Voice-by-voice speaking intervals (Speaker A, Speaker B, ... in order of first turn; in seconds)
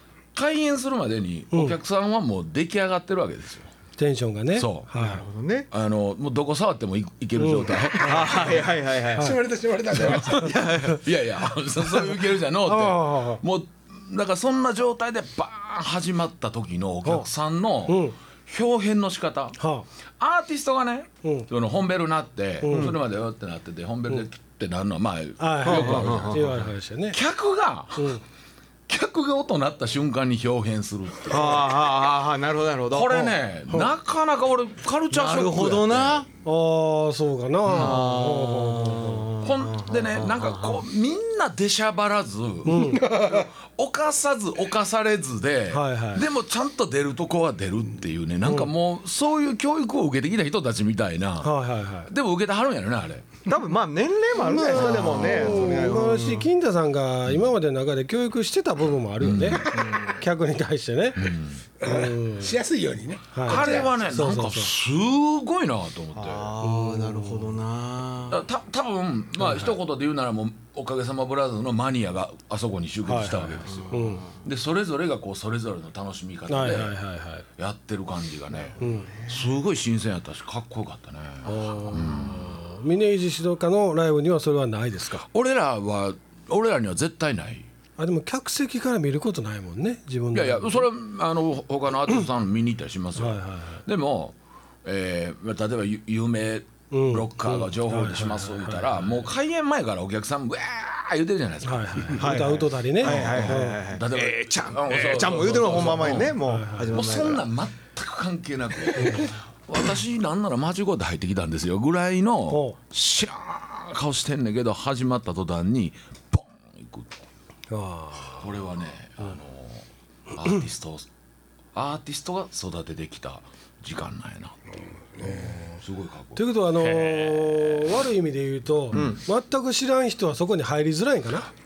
Speaker A: 0.3-3.7, 4.5-4.9, 5.7-8.7, 10.0-19.6, 20.2-28.2, 28.9-31.6, 32.9-36.2, 37.7-38.0, 39.4-51.5, 52.1-53.2, 59.2-59.6, 61.1-61.6, 63.4-66.5, 68.3-77.0, 77.6-82.6, 85.2-87.7, 90.3-117.2, 118.4-121.1, 121.7-124.6, 125.2-128.0
Speaker B: 4.0-5.2, 7.4-8.5, 12.6-13.4, 17.9-18.1, 19.6-19.9, 22.6-22.9, 25.4-27.2, 36.4-39.3, 42.6-43.0, 45.7-46.2, 51.4-52.1, 54.4-62.5, 63.3-64.7, 66.6-67.6, 73.1-74.2, 76.5-77.5, 78.8-79.1, 81.4-85.2, 88.0-90.8, 93.2-93.8, 96.9-98.9, 101.6-103.8, 106.4-106.9, 109.0-109.3, 112.5-112.8, 117.7-118.5, 126.3-131.5
Speaker C: 5.0-5.7, 8.0-9.3, 10.3-11.1, 22.6-22.9, 25.6-26.5, 31.3-33.8, 35.1-36.3, 37.7-40.8, 53.5-56.5, 59.7-60.1, 66.2-68.4, 73.6-74.3, 78.8-79.3, 102.1-107.5, 128.9-129.2
Speaker D: 9.2-10.6, 43.0-43.4, 54.4-55.9, 61.8-63.9, 125.2-125.6